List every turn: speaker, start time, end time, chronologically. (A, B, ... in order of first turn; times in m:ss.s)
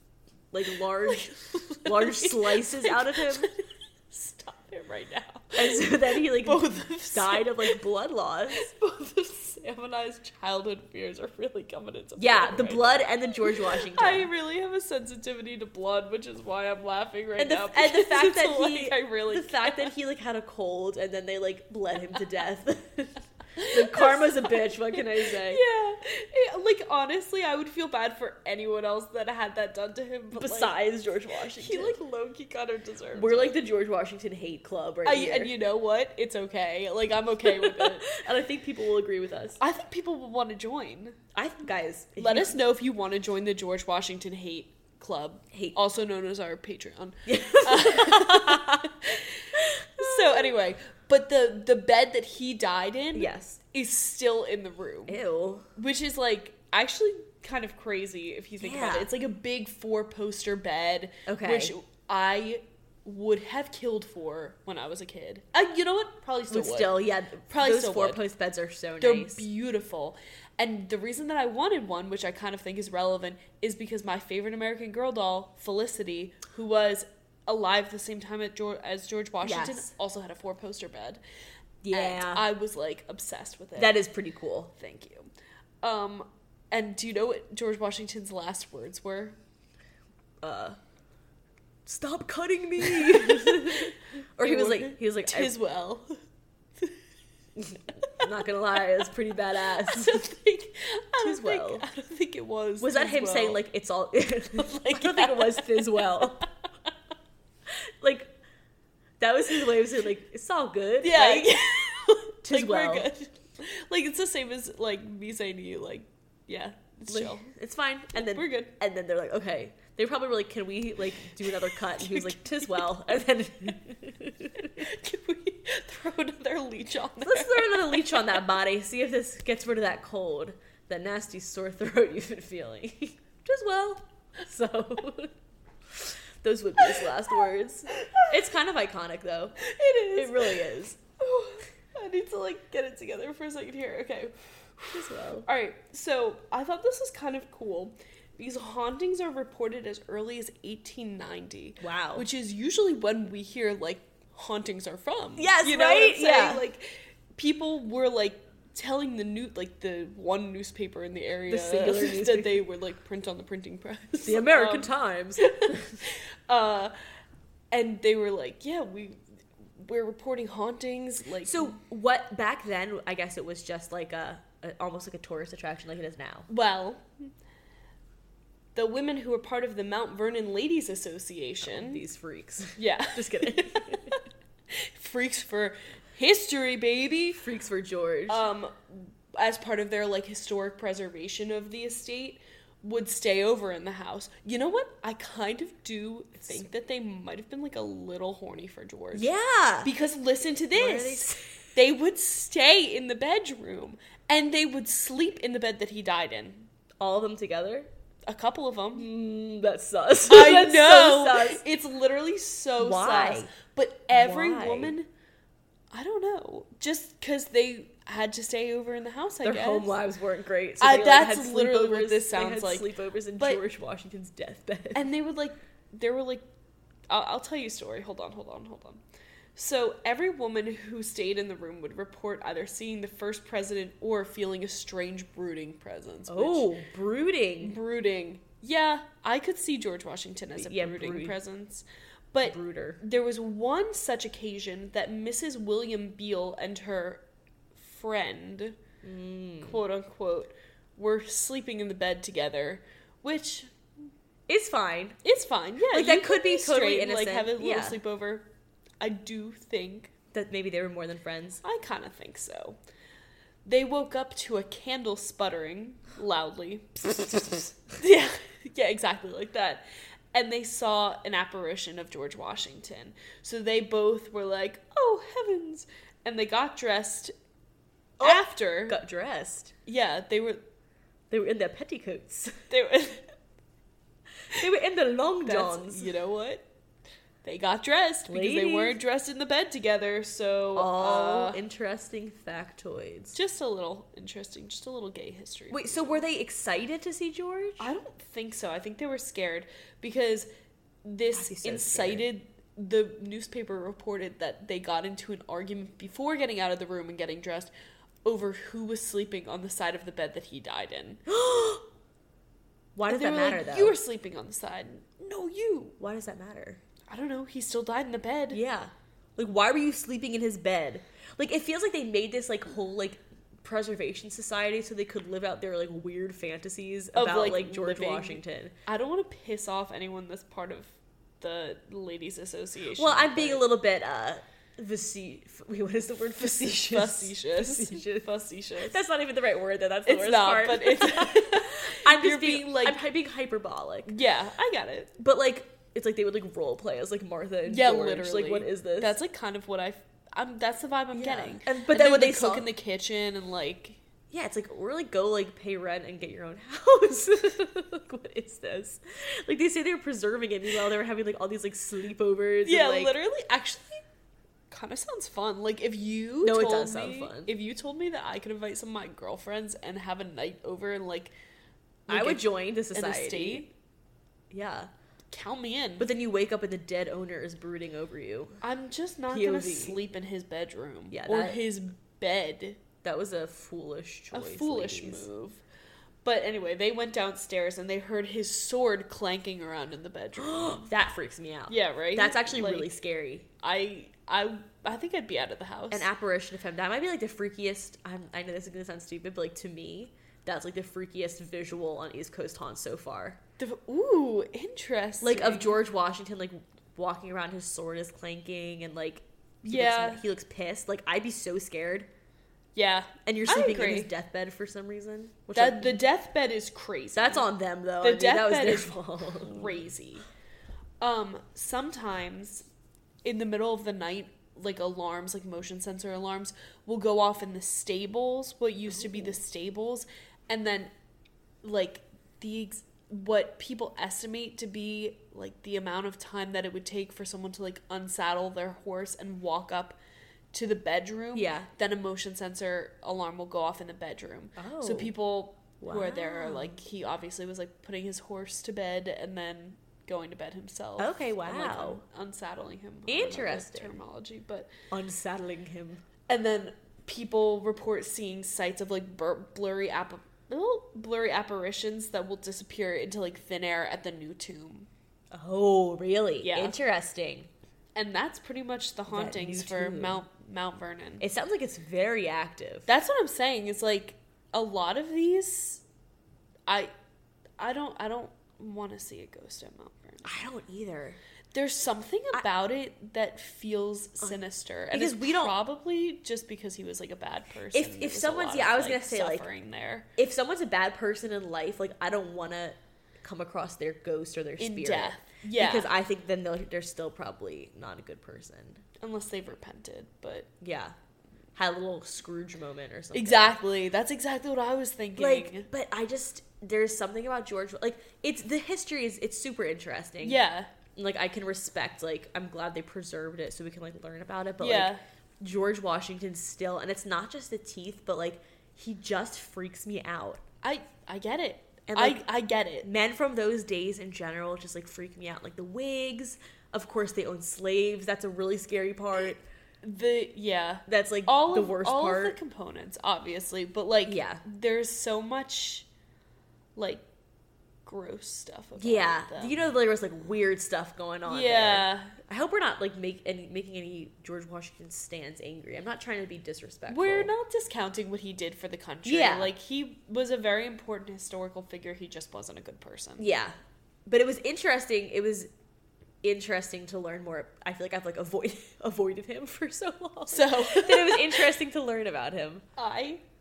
0:00.5-0:03.5 A
0:01.0-0:07.8 B
0:05.6-0:08.7 A
0:08.5-0:19.9 B
0:12.2-0:14.3 A
0:17.4-0:25.6 A
0:23.6-0:30.8 B
0:30.3-0:32.0 A
0:31.5-0:33.6 B
0:33.2-0:35.5 A
0:35.0-0:38.2 B
0:37.4-0:39.6 A
0:39.6-0:41.2 B
0:41.4-0:42.6 A
0:42.2-0:55.2 B
0:45.5-0:45.8 A
0:47.3-0:48.9 A
0:49.6-0:50.6 A
0:53.2-0:53.6 A
0:55.1-0:55.7 A
0:55.8-1:07.0 B
0:58.6-0:59.1 A
1:01.3-1:01.7 A
1:06.5-1:09.5 A
1:07.5-1:08.2 B
1:09.0-1:21.2 B
1:19.4-1:19.9 A
1:21.8-1:22.4 A
1:21.9-1:24.0 B
1:23.8-1:24.7 A
1:24.7-1:25.3 B
1:25.8-1:29.4 B
1:30.4-1:30.8 A
1:31.9-1:35.6 A
1:32.9-1:36.2 B
1:37.6-1:40.3 A
1:39.8-1:43.6 B
1:41.2-1:41.9 A
1:42.8-1:46.4 A
1:44.6-1:46.4 B
1:47.7-1:48.3 A
1:49.2-1:51.6 A
1:51.0-1:57.5 B
1:52.4-1:53.1 A
1:57.1-2:04.9 A
1:58.2-1:58.8 B
2:01.4-2:03.1 B
2:04.6-2:08.4 B
2:07.2-2:15.3 A
2:15.9-2:19.6 A
2:18.0-2:18.3 B
2:19.6-2:46.9 B
2:20.1-2:21.0 A
2:24.9-2:25.5 A
2:31.8-2:32.3 A
2:35.4-2:36.6 A
2:41.5-2:42.6 A
2:44.2-2:46.0 A
2:47.7-2:49.2 B
2:49.8-2:51.8 B
2:51.4-2:56.5 A
2:56.5-2:57.1 B
2:58.8-3:02.0 B
3:01.6-3:04.2 A
3:02.8-3:07.4 B
3:07.4-3:08.4 A
3:08.3-3:19.3 B
3:19.1-3:19.9 A
3:19.8-3:26.7 B
3:20.7-3:21.6 A
3:27.0-3:27.9 A
3:28.3-3:29.1 B
3:29.0-3:31.6 A
3:30.3-3:35.1 B
3:32.8-3:33.5 A
3:34.1-3:35.0 A
3:35.9-3:39.9 B
3:39.4-3:45.1 A
3:40.8-3:43.6 B
3:44.9-3:46.4 B
3:47.1-3:49.0 B
3:49.6-3:56.7 B
3:56.3-3:57.8 A
3:57.6-4:07.2 B
4:00.6-4:01.4 A
4:02.4-4:03.0 A
4:07.8-4:08.8 B
4:09.0-4:09.8 A
4:09.6-4:13.7 B
4:14.5-4:15.2 A
4:15.2-4:18.5 B
4:15.8-4:18.0 A
4:19.0-4:20.1 B
4:20.3-4:21.6 A
4:21.6-4:22.8 B
4:23.6-4:37.3 B
4:38.2-4:39.7 A
4:38.2-4:39.0 B
4:39.9-4:40.6 B
4:41.3-4:42.6 A
4:42.7-4:43.3 B
4:44.5-4:46.1 A
4:45.4-4:46.7 B
4:47.4-4:51.6 B
4:48.3-4:49.0 A
4:50.8-4:53.4 A
4:53.3-4:56.2 B
4:55.7-4:57.9 A
4:57.8-5:00.5 B
5:01.0-5:07.7 B
5:01.3-5:02.3 A
5:08.2-5:11.2 B
5:11.3-5:11.9 A
5:13.0-5:14.0 A
5:13.1-5:16.0 B
5:16.0-5:16.8 A
5:17.1-5:18.6 B
5:18.5-5:28.7 A
5:27.1-5:33.6 B
5:33.0-5:44.2 A
5:36.6-5:39.0 B
5:40.1-5:43.0 B
5:44.1-5:45.1 B
5:45.2-5:49.2 A
5:47.7-5:54.0 B
5:51.1-5:52.7 A
5:54.3-6:03.1 A
6:02.6-6:04.0 B
6:04.7-6:11.3 B
6:06.4-6:07.5 A
6:12.1-6:13.7 B
6:12.1-6:13.7 A
6:14.5-6:14.9 A
6:15.3-6:16.1 B
6:16.0-6:18.6 A
6:18.6-6:22.8 B
6:19.3-6:20.0 A
6:21.1-6:21.6 A
6:23.0-6:25.3 A
6:24.3-6:25.6 B
6:26.2-6:30.9 B
6:30.4-6:33.5 A
6:31.7-6:32.9 B
6:33.6-6:36.1 B
6:35.9-6:43.4 A
6:43.6-6:45.8 B
6:45.2-6:52.1 A
6:49.6-6:50.2 B
6:52.8-6:54.1 B
6:53.2-6:56.0 A
6:55.5-6:57.5 B
6:57.1-6:59.8 A
6:58.0-7:00.3 B
7:01.0-7:02.7 B
7:03.2-7:10.9 B
7:08.9-7:09.3 A
7:11.6-7:20.0 B
7:20.5-7:34.7 B
7:21.4-7:21.7 A
7:24.6-7:25.1 A
7:25.8-7:26.7 A
7:31.0-7:32.0 A
7:33.1-7:34.0 A
7:34.9-7:36.0 A
7:36.3-7:44.9 B
7:45.3-7:47.5 A
7:46.4-7:46.8 B
7:48.0-7:51.3 B
7:49.1-7:50.2 A
7:51.2-7:52.9 A
7:52.9-7:55.8 B
7:57.6-8:00.3 B
8:00.2-8:01.2 A
8:01.5-8:10.1 B
8:04.9-8:05.5 A
8:07.7-8:09.4 A
8:10.2-8:18.8 A
8:14.6-8:15.9 B
8:19.0-8:20.5 B
8:20.6-8:21.0 A
8:21.6-8:23.6 A
8:23.1-8:25.7 B
8:25.2-8:30.4 A
8:30.2-8:30.7 B
8:31.0-8:40.4 A
8:34.6-8:35.0 B
8:40.6-8:42.9 B
8:41.9-8:42.2 A
8:42.8-8:49.4 A
8:49.8-8:55.9 B
8:50.9-8:52.4 A
8:54.1-8:54.4 A
8:56.8-8:57.0 B
8:57.9-8:59.7 B
8:58.8-9:07.3 A
9:01.3-9:02.2 B
9:06.9-9:13.3 B
9:09.0-9:09.5 A
9:13.2-9:13.6 A
9:14.1-9:15.5 A
9:16.2-9:22.6 A
9:20.3-9:21.5 B
9:22.8-9:23.2 B